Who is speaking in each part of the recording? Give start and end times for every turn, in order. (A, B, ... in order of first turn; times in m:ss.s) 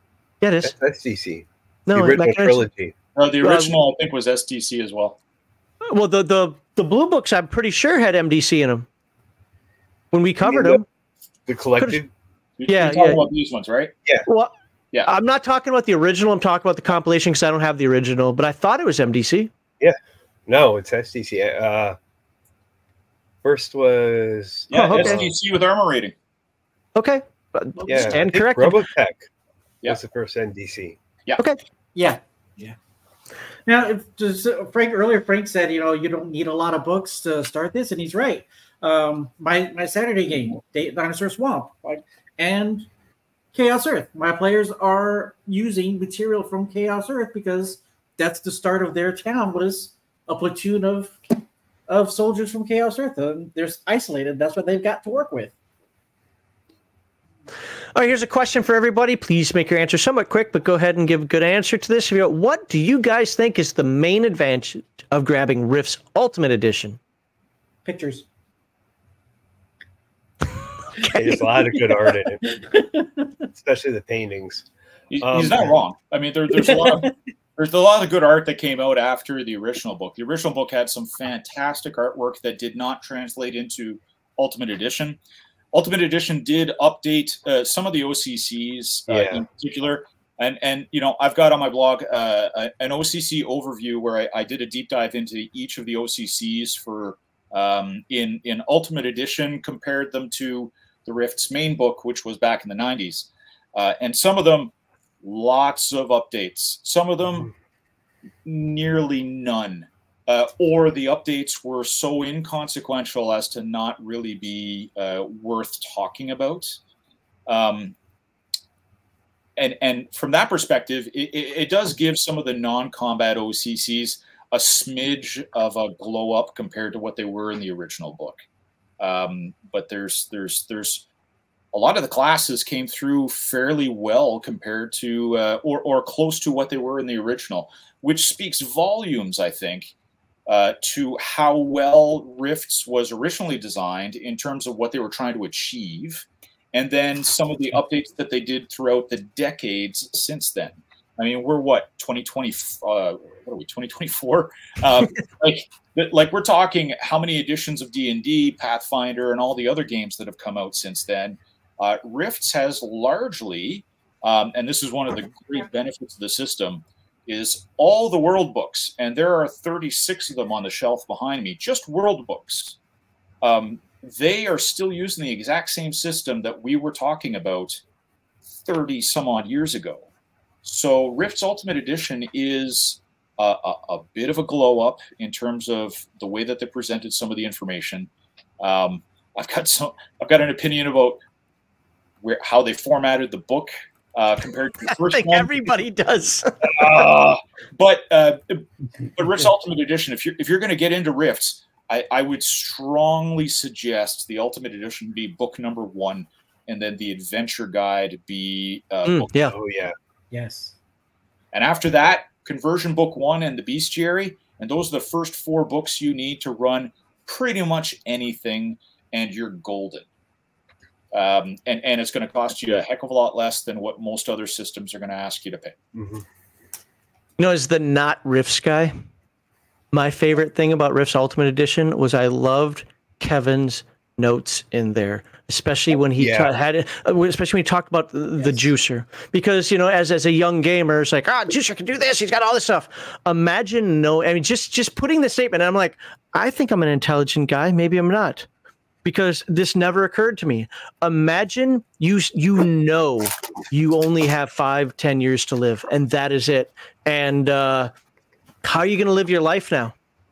0:00.4-0:00.7 A
0:00.6-0:02.9 B
0:01.9-0:02.6 A
0:03.2-0:05.2 C
0:03.4-0:03.8 A
0:05.8-0:08.9 A
0:10.1-0:10.8 A
0:10.4-0:10.8 B
0:11.5-0:12.1 B
0:12.6-0:13.9 C
0:12.7-0:13.2 A
0:14.2-0:14.5 A
0:15.0-0:19.5 A
0:20.5-0:22.0 B
0:23.4-0:25.3 B
0:24.7-0:26.1 C
0:24.7-0:25.2 A
0:26.9-0:28.8 A
0:27.8-0:28.1 D
0:27.9-0:29.2 B
0:29.8-0:31.0 B
0:31.9-0:32.8 D
0:33.7-0:42.9 D
0:43.5-0:51.4 D
0:51.9-0:55.5 D
0:57.9-1:07.0 A
1:07.8-1:08.2 D
1:11.0-1:11.4 A
1:11.1-1:12.8 B
1:12.4-1:13.3 D
1:13.5-1:14.6 B
1:15.1-1:25.2 C
1:15.2-1:15.8 B
1:16.6-1:17.1 D
1:25.7-1:47.5 C
1:29.1-1:29.4 B
1:48.4-1:56.8 C
1:57.5-1:57.9 C
1:59.6-2:08.4 C
2:09.0-2:11.0 C
2:11.7-2:19.9 C
2:20.5-2:52.8 C
2:53.4-2:57.8 C
2:58.6-3:00.1 C
3:00.6-3:08.1 C
3:08.6-3:11.2 C
3:12.2-3:15.7 C
3:15.0-3:17.0 A
3:16.6-3:29.3 C
3:29.0-3:29.5 A
3:29.4-3:29.9 B
3:30.3-3:30.8 D
3:31.5-3:40.0 C
3:41.1-3:45.7 C
3:45.9-3:46.2 B
3:47.4-3:48.9 A
3:49.9-4:08.5 A
3:56.2-3:56.5 B
4:09.0-4:17.9 A
4:18.6-4:19.9 A